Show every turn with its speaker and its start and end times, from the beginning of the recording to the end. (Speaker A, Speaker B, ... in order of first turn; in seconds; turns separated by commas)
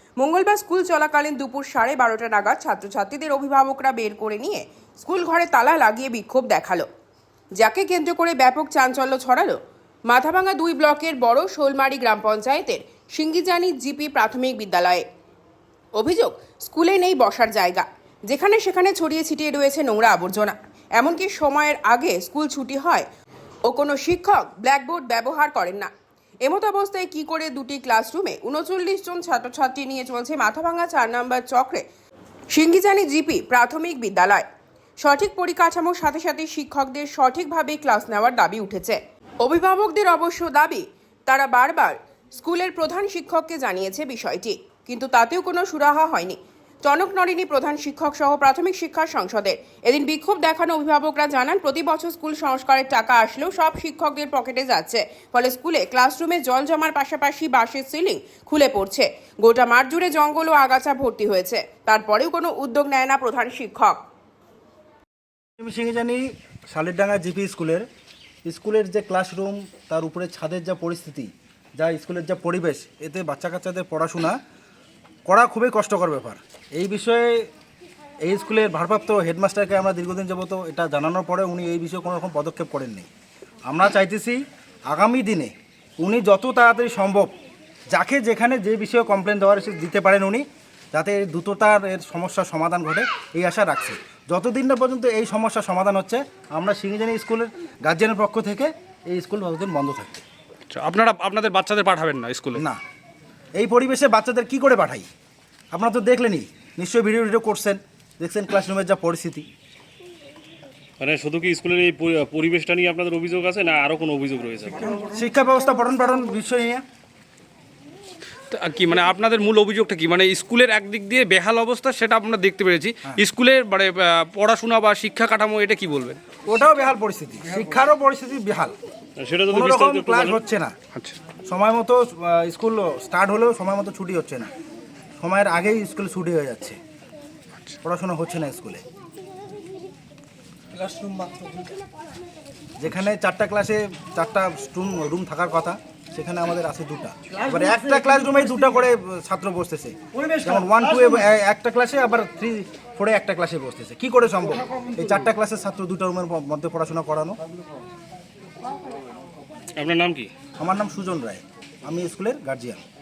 Speaker A: 0.2-6.9, Speaker A: 7.6-9.6, Speaker A: 10.1-15.1, Speaker A: 16.0-23.1, Speaker A: 23.7-25.9, Speaker A: 26.4-31.9, Speaker A: 32.5-34.5, Speaker A: 35.0-64.0, Speaker B: 65.6-67.9, Speaker B: 68.5-74.4, Speaker B: 75.3-77.5, Speaker B: 78.2-83.1, Speaker B: 83.7-87.3, Speaker B: 87.9-100.2, Speaker C: 100.7-102.6, Speaker B: 103.6-105.1, Speaker B: 105.7-109.5, Speaker D: 111.0-115.0, Speaker B: 115.0-116.8, Speaker C: 118.5-126.2, Speaker B: 126.4-128.8, Speaker D: 129.2-130.4, Speaker B: 129.5-130.8, Speaker B: 131.5-134.5, Speaker B: 135.2-136.8, Speaker B: 137.8-138.8, Speaker B: 142.8-157.4, Speaker D: 159.8-160.3, Speaker B: 160.6-162.8